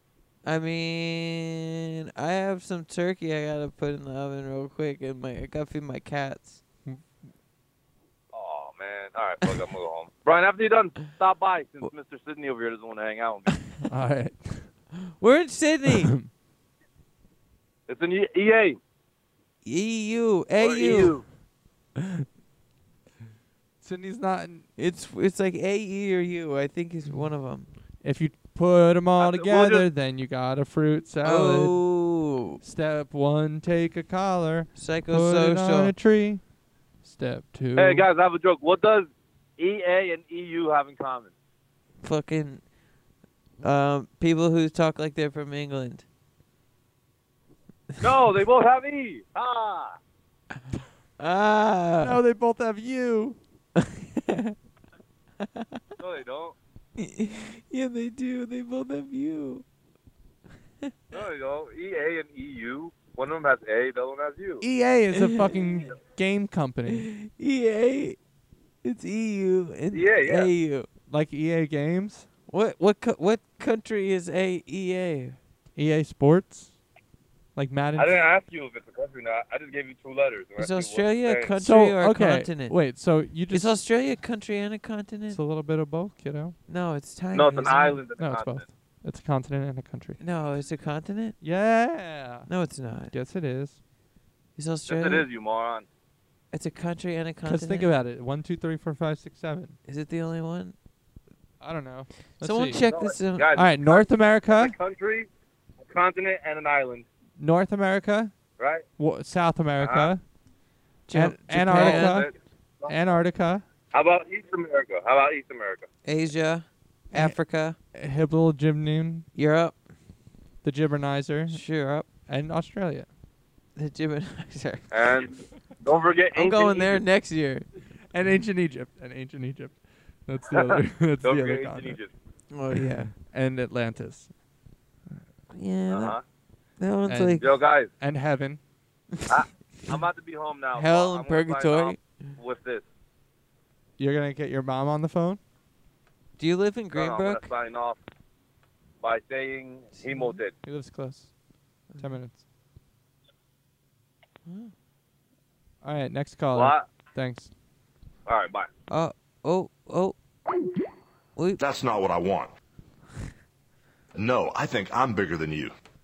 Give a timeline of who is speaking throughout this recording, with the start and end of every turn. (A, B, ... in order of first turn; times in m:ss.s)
0:00.4-0:06.6 A
0:08.3-0:13.6 B
0:13.8-0:14.7 C
0:15.2-0:16.1 A
0:15.9-0:16.3 C
0:17.9-0:18.8 B
0:19.6-0:21.2 A
0:20.6-0:21.2 B
0:23.8-0:24.6 C
0:24.8-0:27.7 A
0:28.0-0:31.8 C
0:29.2-0:29.9 B
0:31.2-0:32.6 A
0:32.6-0:36.4 C
0:34.8-0:36.0 A
0:37.0-0:38.0 C
0:37.8-0:41.3 B
0:42.0-0:42.6 A
0:43.6-0:46.0 A
0:48.0-0:50.0 B
0:51.2-0:52.2 A
0:52.0-0:53.4 C
0:53.8-0:54.6 A
0:56.0-0:56.6 B
0:57.0-0:59.6 A
1:01.1-1:04.6 B
1:04.6-1:07.1 C
1:05.1-1:05.6 A
1:06.9-1:08.2 A
1:08.8-1:10.9 A
1:09.9-1:10.5 B
1:11.1-1:12.3 C
1:12.5-1:15.4 A
1:15.8-1:16.7 C
1:17.6-1:18.2 C
1:18.0-1:21.5 B
1:20.6-1:22.9 A
1:21.6-1:23.8 C
1:23.5-1:25.4 A
1:25.3-1:26.6 C
1:26.7-1:28.0 A
1:27.3-1:28.6 B
1:28.2-1:30.2 C
1:30.2-1:31.4 A
1:31.4-1:32.5 C
1:32.5-1:33.1 A
1:33.1-1:33.8 C
1:34.6-1:35.3 A
1:34.9-1:35.9 B
1:36.5-1:37.9 A
1:37.5-1:39.8 C
1:39.9-1:40.8 A
1:41.6-1:42.8 C
1:42.4-1:43.5 A
1:42.9-1:45.3 B
1:43.5-1:44.7 C
1:45.9-1:47.1 B
1:47.4-1:48.3 C
1:48.6-1:48.8 B
1:49.0-1:50.2 C
1:49.8-1:50.1 B
1:51.1-1:52.2 A
1:51.1-1:52.3 C
1:51.7-1:52.9 B
1:52.9-1:53.6 C
1:53.9-1:55.8 B
1:56.0-1:57.8 A
1:57.1-1:57.4 C
1:57.9-1:59.3 C
1:59.4-1:59.8 A
2:00.6-2:01.6 C
2:01.5-2:02.1 A
2:02.3-2:03.1 C
2:03.8-2:05.1 A
2:04.9-2:07.0 B
2:06.4-2:07.6 A
2:08.1-2:12.0 C
2:10.5-2:12.1 B
2:12.5-2:13.1 A
2:13.2-2:14.3 C
2:15.5-2:16.2 A
2:15.9-2:16.2 B
2:16.8-2:17.4 A
2:17.1-2:17.4 C
2:17.4-2:17.9 B
2:18.0-2:18.6 C
2:19.3-2:22.8 B
2:20.7-2:22.0 A
2:24.0-2:25.4 C
2:26.4-2:27.5 A
2:26.9-2:28.0 B
2:29.0-2:30.5 B
2:30.0-2:30.4 A
2:30.6-2:31.3 C
2:31.9-2:32.2 A
2:32.0-2:32.4 C
2:34.4-2:34.7 A
2:35.8-2:37.5 C
2:36.5-2:36.9 B
2:38.3-2:38.7 B
2:38.9-2:40.2 A
2:41.6-2:42.5 D
2:44.1-2:45.8 D